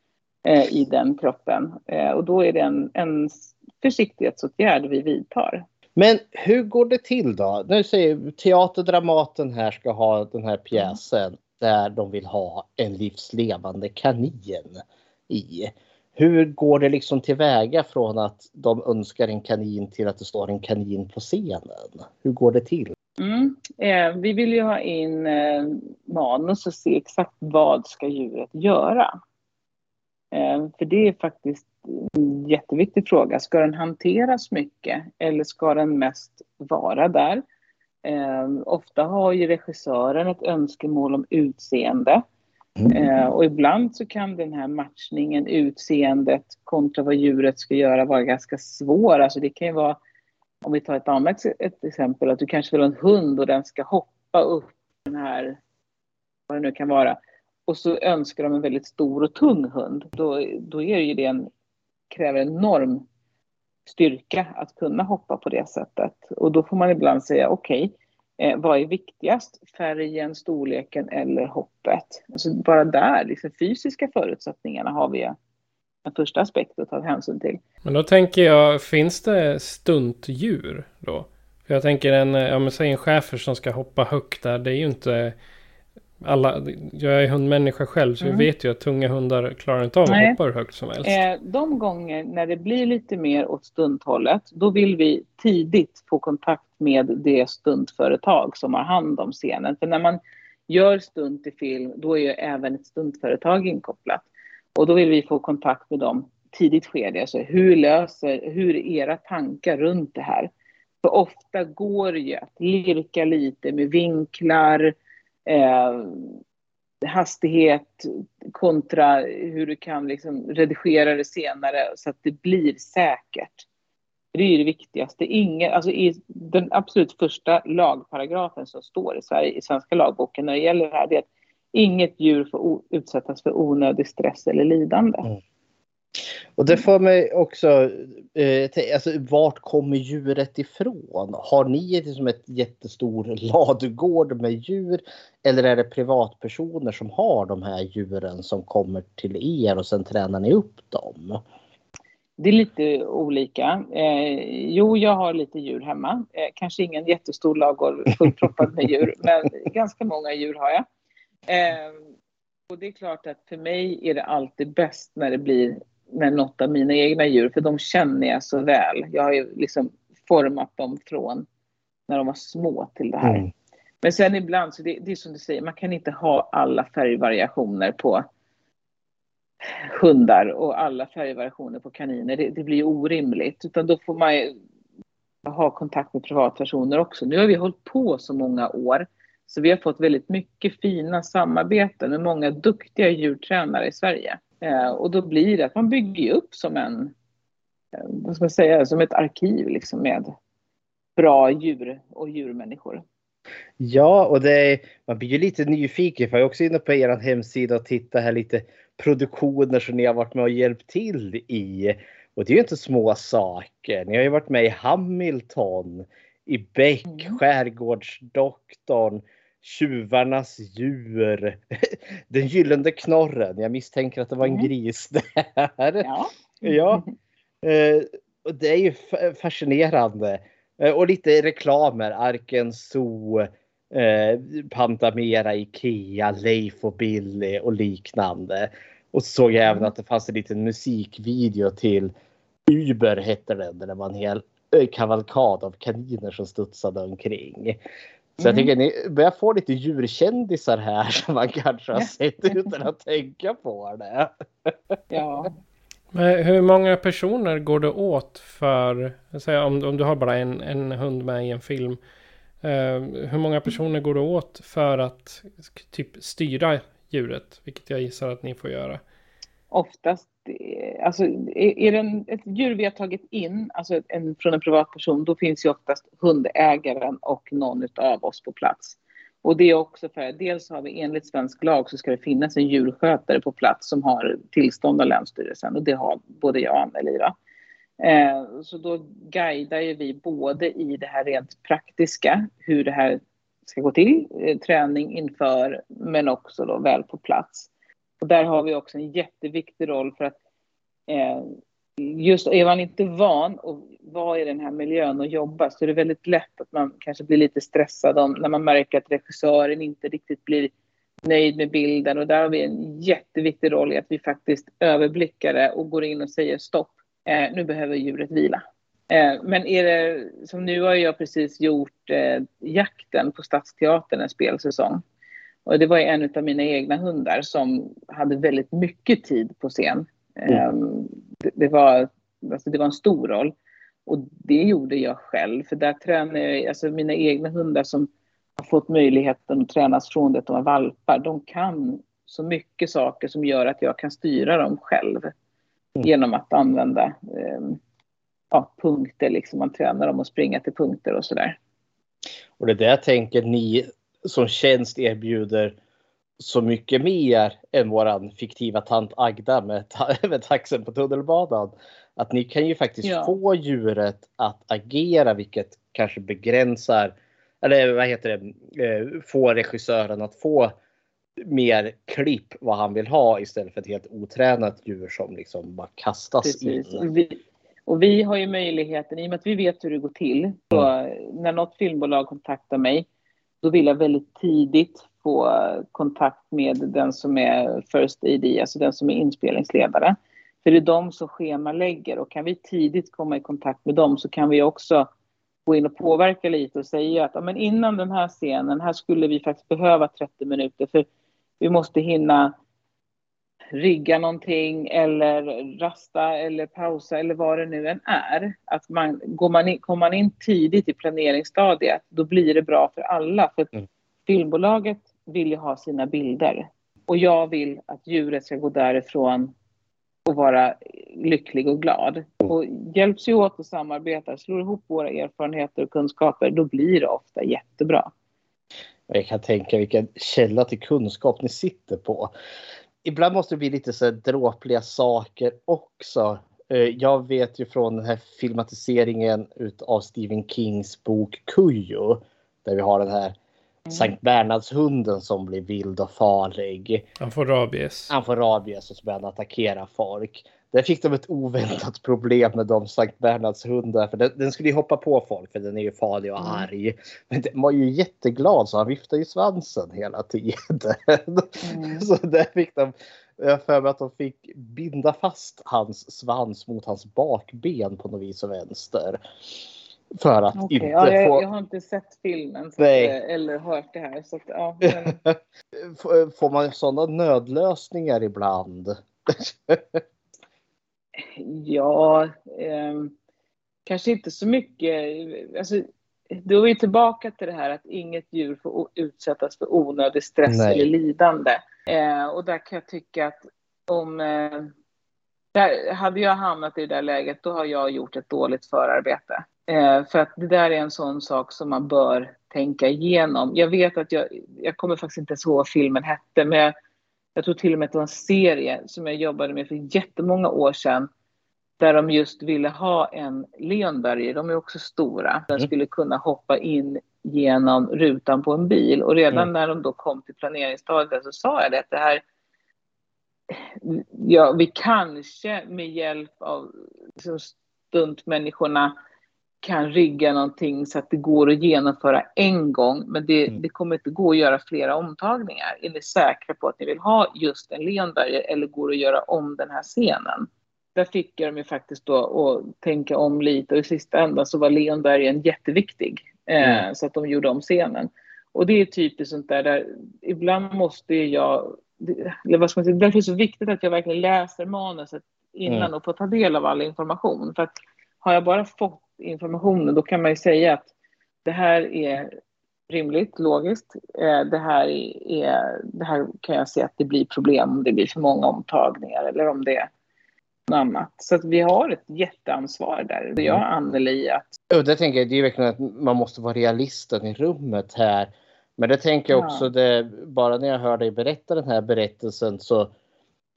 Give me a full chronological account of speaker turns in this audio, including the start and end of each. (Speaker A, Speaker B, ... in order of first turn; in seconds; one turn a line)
Speaker A: 0.5-5.7
Speaker B: 6.0-22.9
Speaker A: 23.2-29.1
Speaker A: 30.3-37.4
Speaker A: 38.0-42.2
Speaker A: 42.9-50.0
Speaker A: 50.6-55.6
Speaker A: 56.5-61.5
Speaker A: 62.1-63.0
Speaker A: 63.9-75.4
Speaker A: 76.1-77.6
Speaker C: 77.8-85.4
Speaker C: 86.2-91.2
Speaker A: 88.2-88.5
Speaker A: 90.1-90.4
Speaker A: 91.0-104.2
Speaker A: 104.8-110.5
Speaker A: 111.0-115.0
Speaker A: 115.5-116.4
Speaker A: 117.0-123.7
Speaker A: 124.3-135.3
Speaker B: 136.6-151.4
Speaker A: 152.4-160.8
Speaker A: 161.5-162.0
Speaker A: 162.7-171.5
Speaker A: 172.1-173.4
Speaker B: 173.2-173.5
Speaker A: 174.0-178.3
Speaker A: 179.9-184.6
Speaker A: 185.4-197.1
Speaker A: 198.0-200.3
Speaker A: 201.2-203.0
Speaker B: 203.8-226.1
Speaker A: 217.1-217.4
Speaker A: 224.4-224.7
Speaker A: 226.0-227.1
Speaker B: 226.6-227.0
Speaker B: 227.6-242.1
Speaker B: 242.7-247.8
Speaker B: 248.4-254.7
Speaker A: 248.4-248.7
Speaker A: 251.9-252.7
Speaker A: 255.1-255.5
Speaker C: 256.1-262.0
Speaker C: 262.6-269.0
Speaker A: 269.7-287.3
Speaker A: 288.0-297.7
Speaker A: 298.2-300.4
Speaker A: 301.1-310.7
Speaker A: 311.2-325.0
Speaker A: 325.7-333.5
Speaker A: 334.1-345.3
Speaker A: 346.0-347.8
Speaker A: 348.5-351.6
Speaker B: 352.6-355.8
Speaker B: 356.4-370.8
Speaker A: 363.0-363.4
Speaker B: 371.4-377.1
Speaker A: 376.4-383.1
Speaker A: 383.6-395.1
Speaker A: 395.7-401.1
Speaker A: 401.6-402.5
Speaker A: 403.7-413.7
Speaker A: 414.3-419.5
Speaker A: 420.3-428.1
Speaker B: 429.1-432.3
Speaker B: 433.0-443.4
Speaker B: 443.9-447.1
Speaker C: 447.2-448.1
Speaker B: 448.1-469.2
Speaker A: 461.6-462.1
Speaker B: 470.1-471.4
Speaker A: 470.6-475.2
Speaker B: 472.8-473.1
Speaker B: 474.9-480.0
Speaker A: 481.2-483.1
Speaker A: 483.9-494.7
Speaker B: 490.5-490.9
Speaker A: 495.6-506.8
Speaker A: 507.4-511.1
Speaker A: 511.8-522.2
Speaker A: 523.5-529.0
Speaker A: 529.6-560.9
Speaker A: 561.5-562.3
Speaker A: 562.9-569.9
Speaker A: 570.7-574.5
Speaker B: 574.7-582.9
Speaker A: 579.3-579.7